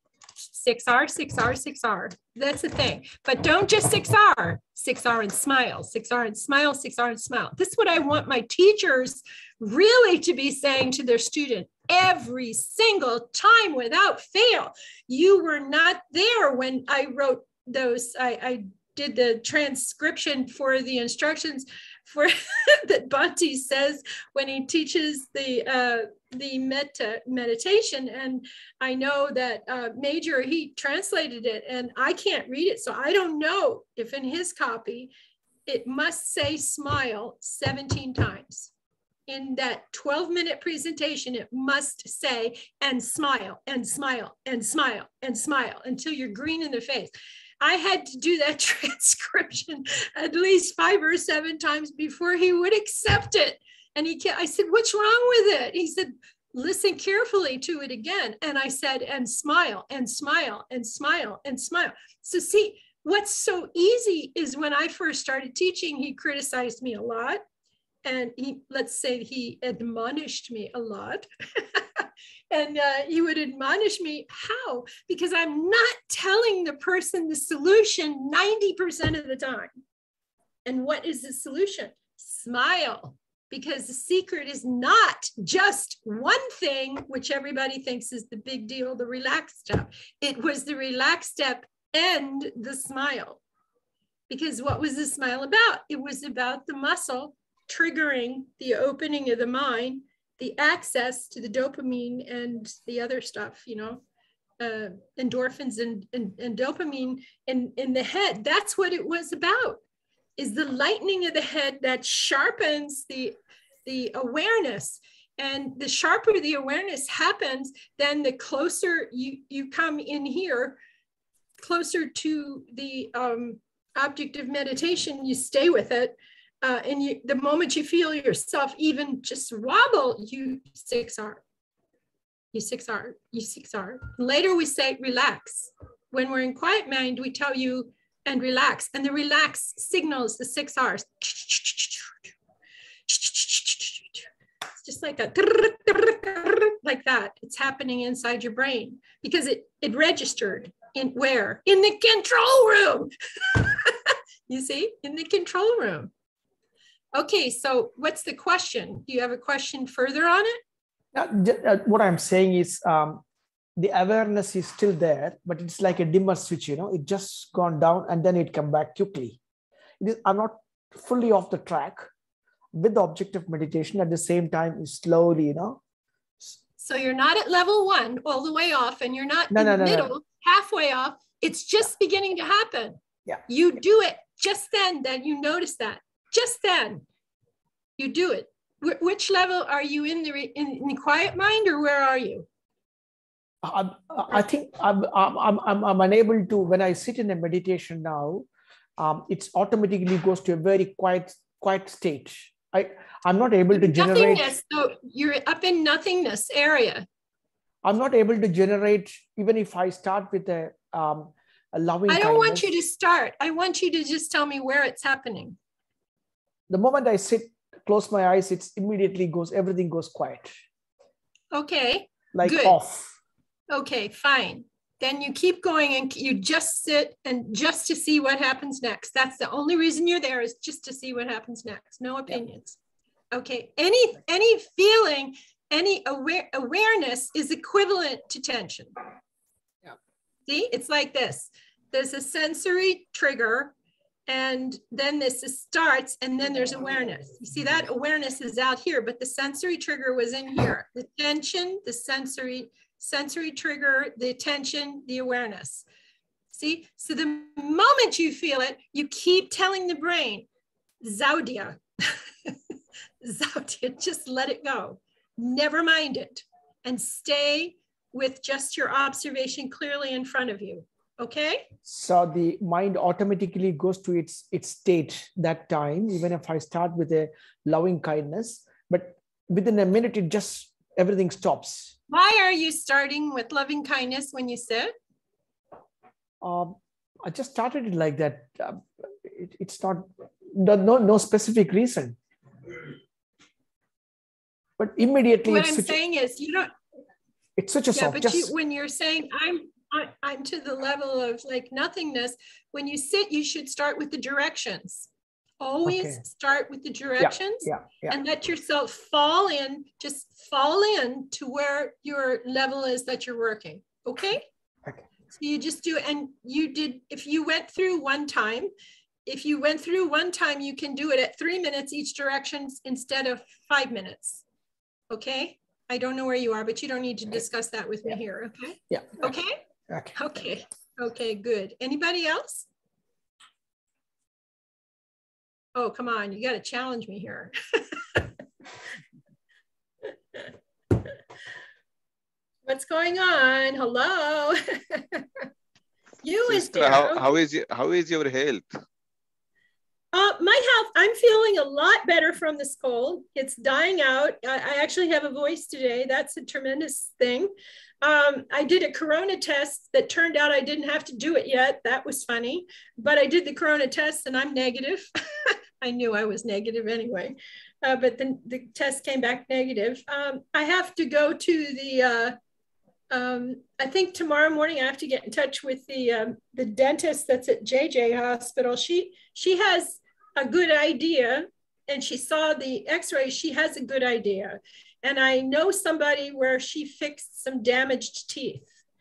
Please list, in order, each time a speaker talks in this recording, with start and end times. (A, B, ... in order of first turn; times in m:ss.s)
0:00.5-0:35.1 A
0:35.7-0:38.7 A
0:39.3-1:07.4 A
1:08.0-1:19.7 A
1:20.6-1:33.4 A
1:34.3-1:44.0 A
1:44.6-1:49.8 A
1:50.4-2:00.8 A
2:01.6-2:11.4 A
2:12.5-2:22.3 A
2:23.1-2:24.2 A
2:24.8-2:36.1 A
2:37.1-2:40.6 A
2:41.1-2:43.2 B
2:43.8-2:49.4 B
2:50.0-2:52.1 B
2:52.7-2:55.8 B
2:56.8-3:07.0 A
2:59.5-3:00.1 B
3:08.0-3:12.5 A
3:13.6-3:24.5 B
3:23.7-3:27.1 A
3:27.8-3:32.7 B
3:32.1-3:35.6 A
3:36.7-3:40.6 B
3:41.5-3:42.8 A
3:42.3-3:43.2 B
3:43.7-3:52.8 A
3:53.3-3:58.9 A
4:00.5-4:03.7 A
4:04.3-4:15.8 A
4:16.5-4:20.4 A
4:21.0-4:22.5 A
4:23.2-4:31.7 A
4:31.8-4:41.9 B
4:42.1-4:44.9 A
4:46.4-4:52.2 B
4:54.8-4:56.0 B
4:55.4-4:56.7 A
4:57.6-4:58.5 B
4:57.9-5:05.1 A
5:05.6-5:14.4 A
5:05.8-5:06.2 B
5:07.2-5:08.2 B
5:15.3-5:18.7 A
5:19.2-5:24.4 A
5:25.1-5:29.6 A
5:28.9-5:29.3 B
5:29.9-5:30.1 B
5:30.1-5:32.7 A
5:35.8-5:38.3 A
5:42.6-5:45.3 A
5:46.2-5:47.3 A
5:46.5-5:48.7 C
5:50.1-5:57.5 A
5:58.0-6:12.3 A
6:13.1-6:28.7 A